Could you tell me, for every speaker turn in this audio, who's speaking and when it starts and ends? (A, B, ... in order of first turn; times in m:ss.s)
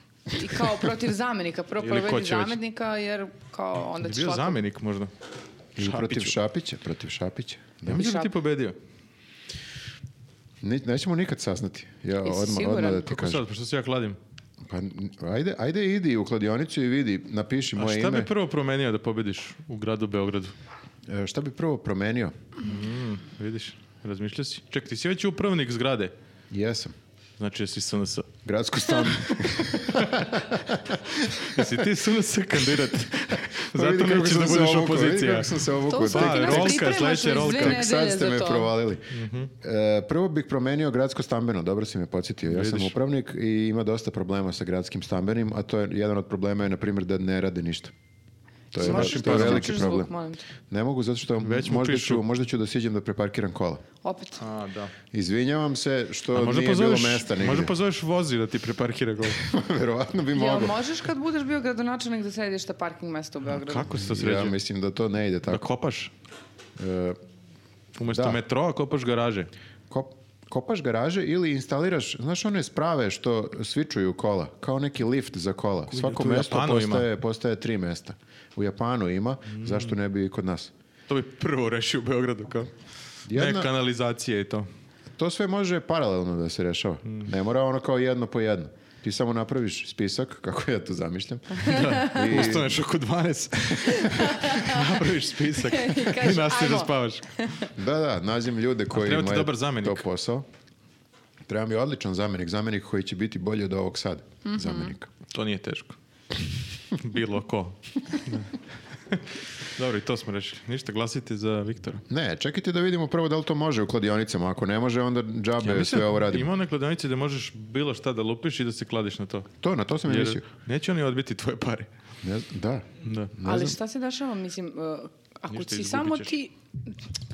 0:00.3-0:04.6 A
0:01.8-0:02.6 B
0:04.0-0:05.1 B
0:05.8-0:06.3 B
0:05.8-0:08.0 C
0:07.8-0:08.8 B
0:07.9-0:08.3 A
0:10.6-0:13.4 C
0:12.2-0:13.1 A
0:13.0-0:14.2 B
0:14.6-0:18.3 C
0:17.7-0:20.5 B
0:21.1-0:22.3 C
0:22.6-0:26.1 B
0:26.5-0:26.9 C
0:27.4-0:28.3 B
0:28.4-0:31.8 C
0:29.0-0:30.1 B
0:31.4-0:37.8 B
0:32.8-0:39.1 C
0:35.9-0:38.7 A
0:39.1-0:39.5 B
0:39.6-0:47.9 C
0:42.5-0:42.9 B
0:48.7-0:50.1 C
0:48.8-0:49.9 B
0:48.8-0:50.4 A
0:50.7-0:53.8 C
0:51.4-0:52.2 B
0:54.0-0:54.4 A
0:54.4-0:54.9 B
0:55.1-0:57.7 C
0:56.3-0:59.4 B
0:59.3-1:00.8 C
1:00.3-1:03.9 A
1:03.5-1:04.5 B
1:03.9-1:05.7 C
1:05.5-1:06.1 B
1:06.8-1:07.2 C
1:08.0-1:09.5 B
1:08.1-1:08.4 C
1:09.9-1:20.7 C
1:15.9-1:17.0 B
1:19.5-1:19.9 B
1:21.1-1:22.7 B
1:23.3-1:23.7 C
1:23.3-1:24.7 B
1:25.2-1:32.8 C
1:27.0-1:27.3 B
1:31.6-1:37.5 B
1:33.6-1:33.9 C
1:33.8-1:34.9 A
1:35.5-1:37.7 A
1:37.8-1:40.4 C
1:38.9-1:40.0 B
1:41.5-1:45.1 C
1:44.4-1:44.9 A
1:45.3-1:46.0 B
1:47.0-1:52.0 B
1:52.1-1:56.5 C
1:55.6-1:59.5 B
1:59.6-2:00.4 C
2:00.0-2:01.9 B
2:02.2-2:03.8 C
2:03.0-2:03.3 B
2:03.4-2:06.5 A
2:05.5-2:06.3 B